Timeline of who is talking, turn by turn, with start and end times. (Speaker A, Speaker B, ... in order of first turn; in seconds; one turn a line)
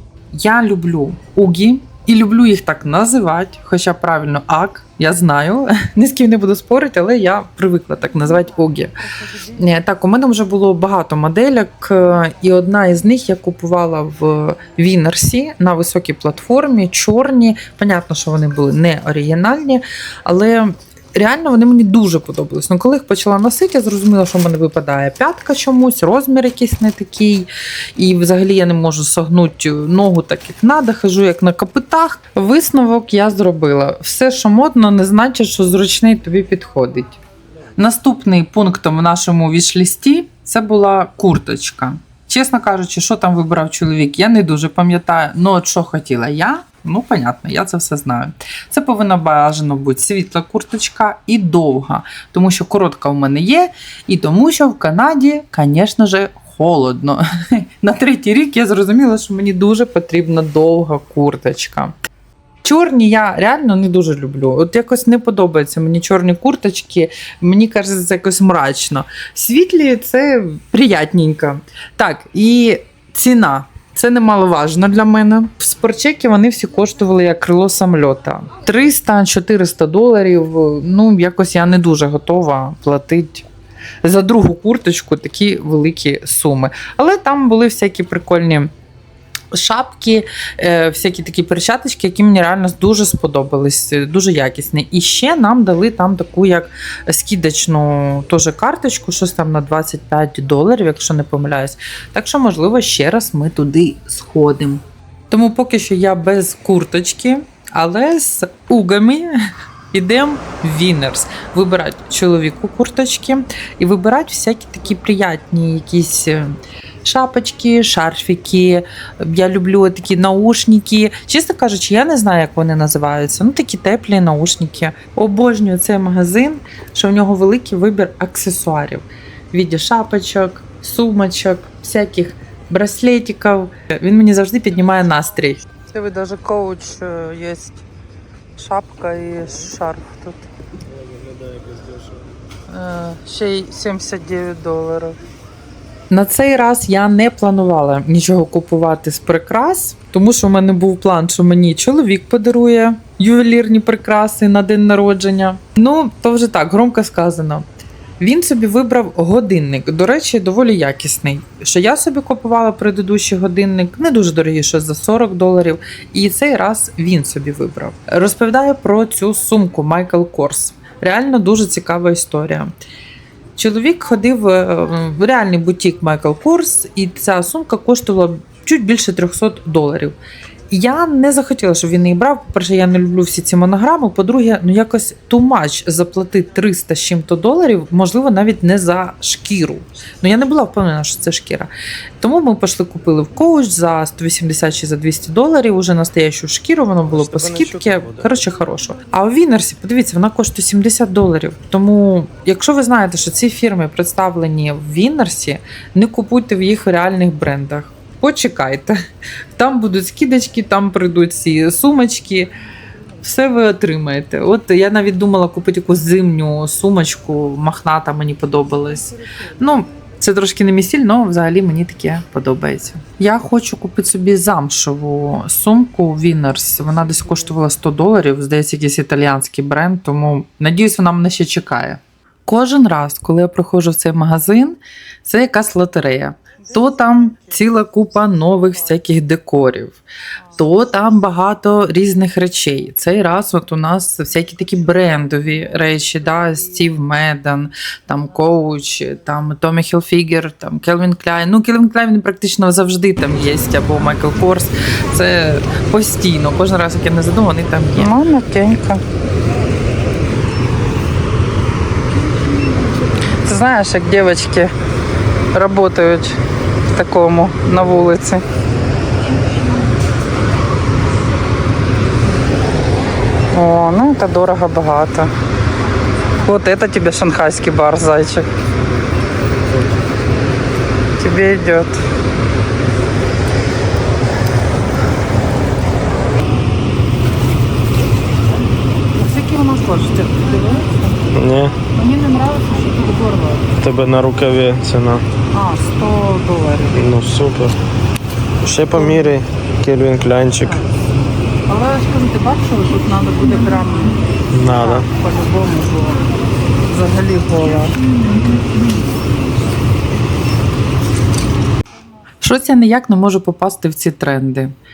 Speaker A: 0.3-37.2
Speaker A: 37.8-61.9
Speaker A: 62.6-83.5
Speaker A: 84.0-88.7
Speaker A: 89.5-109.3
Speaker A: 109.9-135.6
Speaker B: 135.9-137.8
Speaker B: 138.6-140.4
Speaker C: 140.9-142.3
Speaker B: 142.7-145.2
Speaker A: 146.1-157.6
Speaker A: 158.2-172.8
Speaker A: 173.6-180.2
Speaker A: 180.7-191.7
Speaker A: 192.2-208.9
Speaker C: 197.0-198.4
Speaker A: 209.5-212.5
Speaker A: 213.2-240.0
Speaker B: 236.6-237.4
Speaker B: 240.4-240.6
Speaker A: 240.6-258.1
Speaker B: 257.9-259.0
Speaker B: 263.4-264.7
Speaker B: 265.5-266.4
Speaker B: 266.9-268.4
Speaker B: 273.5-275.3
Speaker B: 276.4-278.5
Speaker B: 281.2-282.0
Speaker B: 289.1-291.2
Speaker C: 291.3-291.8
Speaker B: 291.9-293.7
Speaker C: 293.8-295.2
Speaker B: 295.5-297.0
Speaker C: 296.9-297.8
Speaker C: 298.6-300.8
Speaker B: 298.9-299.4
Speaker B: 301.7-306.2
Speaker C: 304.5-305.1
Speaker B: 306.9-308.6
Speaker A: 312.4-314.7